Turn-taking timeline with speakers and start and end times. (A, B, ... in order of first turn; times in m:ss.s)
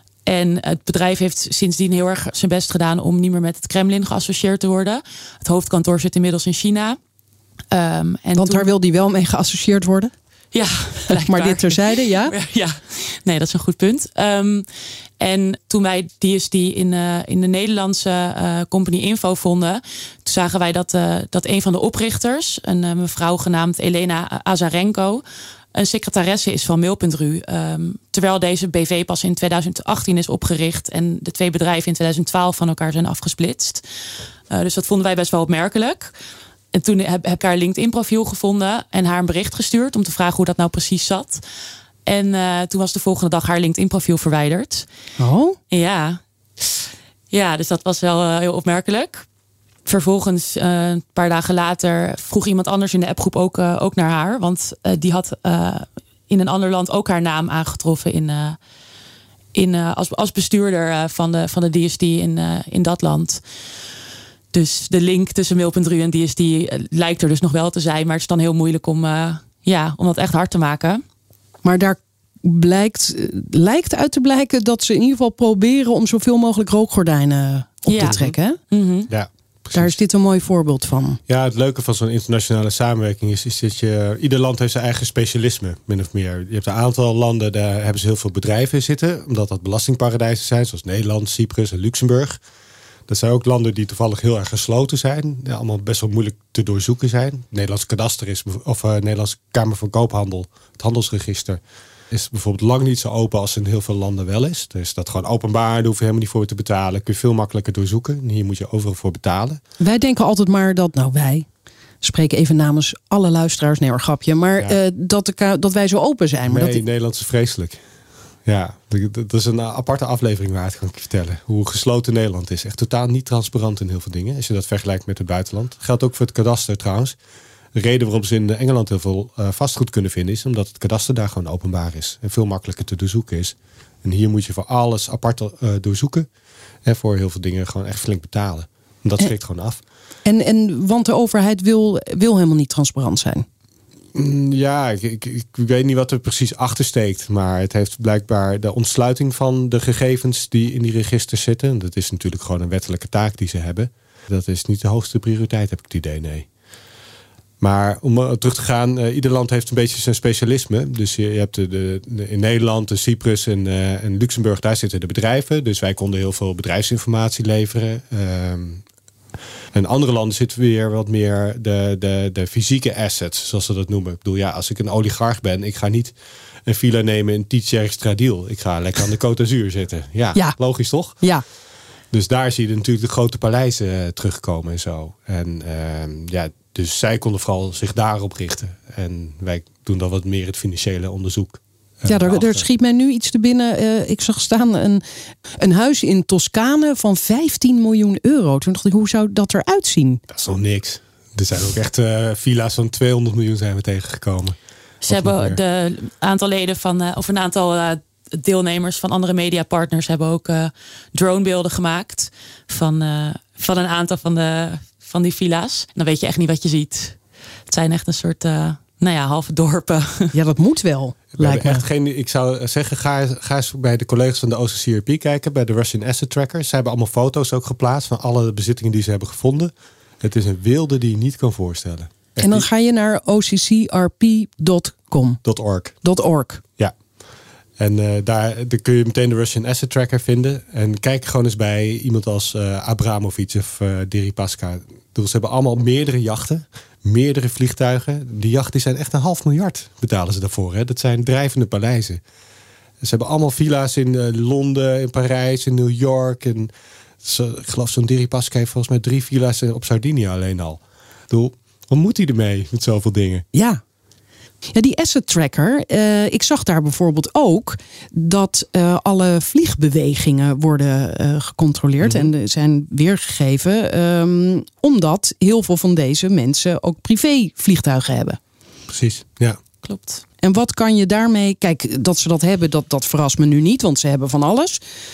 0:00.3-0:07.0 A
0:07.7-0:08.7 A
0:08.4-0:10.1 B
0:10.5-0:14.7 A
0:11.1-0:12.3 B
0:15.2-0:25.2 A
0:25.7-0:33.8 A
0:34.5-0:36.1 A
0:36.7-0:41.4 A
0:42.1-0:44.9 A
0:45.2-0:45.6 B
0:45.7-0:49.2 A
0:49.9-0:58.6 A
0:59.5-1:03.4 A
1:04.5-1:11.0 A
1:11.6-1:18.6 B
1:17.9-1:19.1 A
1:18.0-1:18.3 C
1:19.1-1:20.0 C
1:19.7-1:21.2 B
1:21.3-1:32.4 C
1:33.1-1:49.6 C
1:49.8-1:51.5 B
1:52.0-1:56.8 B
1:56.5-1:57.8 C
1:58.5-2:07.2 C
2:07.7-2:16.3 C
2:16.8-2:19.8 C
2:20.2-2:23.4 B
2:24.1-2:36.5 C
2:37.6-2:48.8 C
2:49.7-2:56.1 C
2:56.7-3:01.2 C
3:02.1-3:12.6 C
3:12.1-3:15.0 B
3:15.5-3:20.2 B
3:20.3-3:25.6 C
3:25.0-3:40.3 A
3:40.3-3:41.8 B
3:41.3-3:52.7 C
3:52.4-3:55.4 B
3:55.4-3:55.9 C
3:56.0-3:56.6 B
3:57.8-4:12.2 C
4:13.0-4:16.7 C
4:17.2-4:23.4 C
4:23.5-4:23.8 B
4:24.7-4:38.4 B
4:32.0-4:32.3 C
4:38.9-4:39.6 C
4:39.8-4:40.2 A
4:40.4-4:44.8 B